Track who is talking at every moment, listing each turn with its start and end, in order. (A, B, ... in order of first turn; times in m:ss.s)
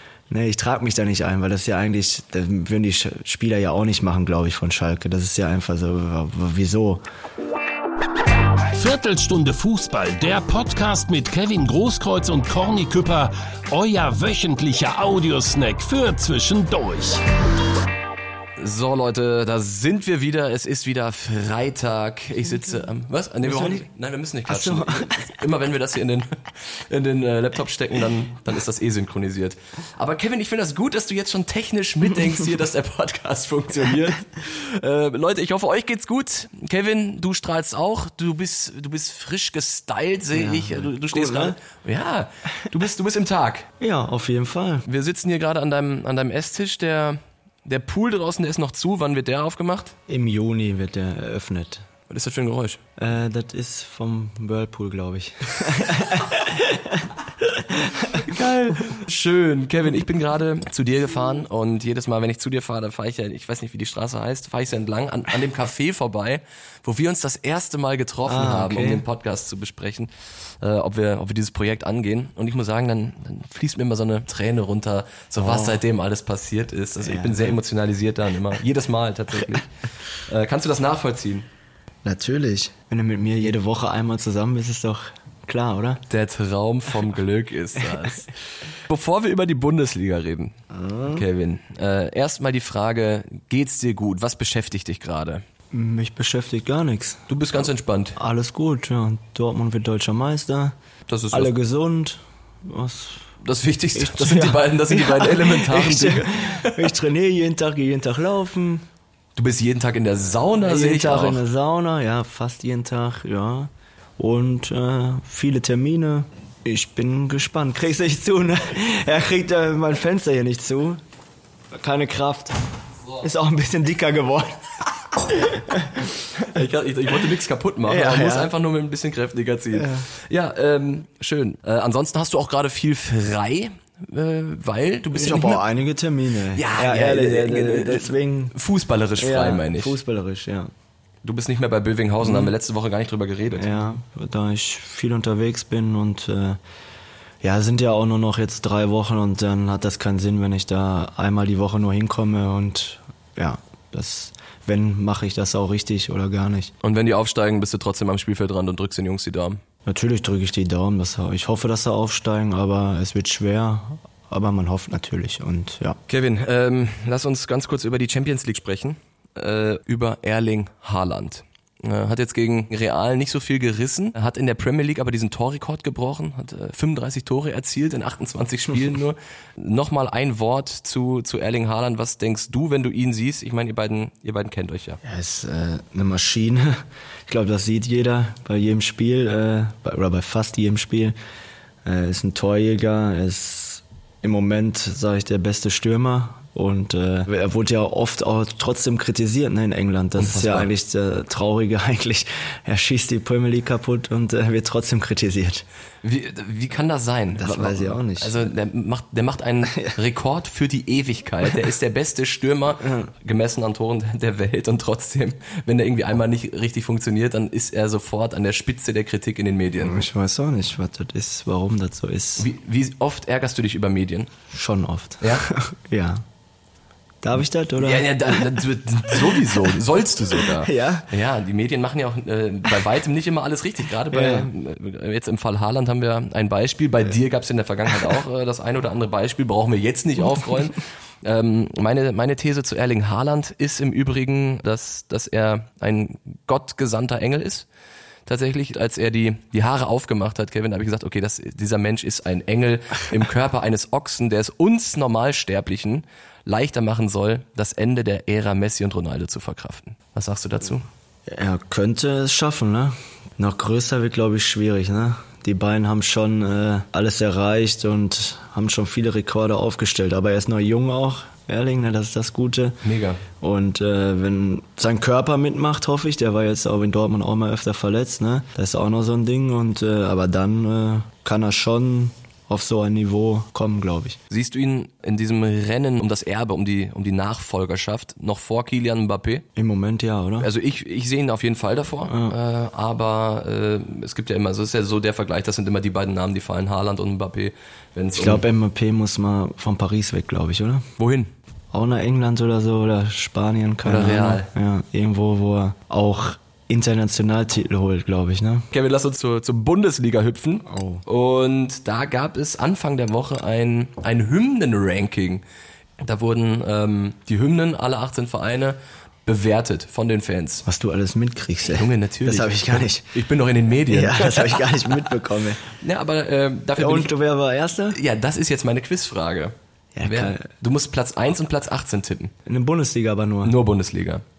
0:00.3-0:07.0 A
0:08.7-0:17.2 B
0:18.6-0:43.7 C
0:23.4-0:23.8 A
0:24.4-0:25.4 A
0:40.3-0:41.6 A
0:43.8-0:44.8 A
0:44.8-0:49.9 C
0:50.1-0:51.8 A
0:52.1-0:52.8 C
0:53.0-0:58.2 A
0:58.1-1:19.7 C
1:08.2-1:09.0 A
1:15.4-1:15.8 A
1:17.0-1:17.6 A
1:20.2-1:21.5 C
1:22.0-1:26.0 A
1:26.1-1:30.6 C
1:30.7-1:31.2 A
1:31.1-1:35.4 C
1:35.7-1:37.3 A
1:37.3-1:38.2 C
1:38.2-1:40.7 A
1:41.1-1:41.5 C
1:41.3-1:43.2 A
1:43.4-1:46.9 C
1:43.9-1:48.8 A
1:49.4-1:51.4 C
1:50.6-2:01.0 A
2:01.8-2:02.5 A
2:03.2-2:06.5 A
2:06.4-2:15.6 C
2:07.8-2:08.5 A
2:09.7-2:10.1 A
2:15.1-2:18.5 A
2:16.5-2:20.0 C
2:19.2-2:20.7 A
2:21.2-2:23.8 C
2:22.2-2:22.5 A
2:23.5-2:26.6 A
2:27.4-2:36.7 A
2:36.8-2:39.6 C
2:39.8-2:46.0 A
2:46.1-3:05.0 C
3:05.0-3:11.1 A
3:11.8-3:25.6 A
3:20.2-3:20.7 C
3:26.0-3:40.0 C
3:27.4-3:28.4 A
3:32.8-3:33.1 A
3:39.8-3:42.5 A
3:42.4-3:44.3 C
3:44.5-3:46.2 A
3:47.2-3:49.7 A
3:47.8-4:07.6 C
3:50.4-3:51.1 A
3:54.1-3:54.5 A
4:08.2-4:20.8 C
4:21.3-4:32.8 A
4:32.8-4:33.2 C
4:33.4-4:44.2 A
4:44.3-4:49.4 C
4:49.5-4:50.5 A
4:50.4-4:58.4 C
4:52.1-4:52.3 A
4:58.1-5:00.9 A
5:01.0-5:01.3 C
5:01.7-5:08.7 A
5:03.8-5:04.5 C
5:08.7-5:15.4 C
5:10.6-5:11.0 A
5:16.0-5:20.6 C
5:20.6-5:23.1 A
5:21.7-5:25.1 C
5:23.9-5:25.6 A
5:25.8-5:27.1 C
5:26.8-5:28.0 A
5:27.9-5:32.3 C
5:29.9-5:30.5 A
5:32.4-5:33.5 A
5:33.4-5:34.2 C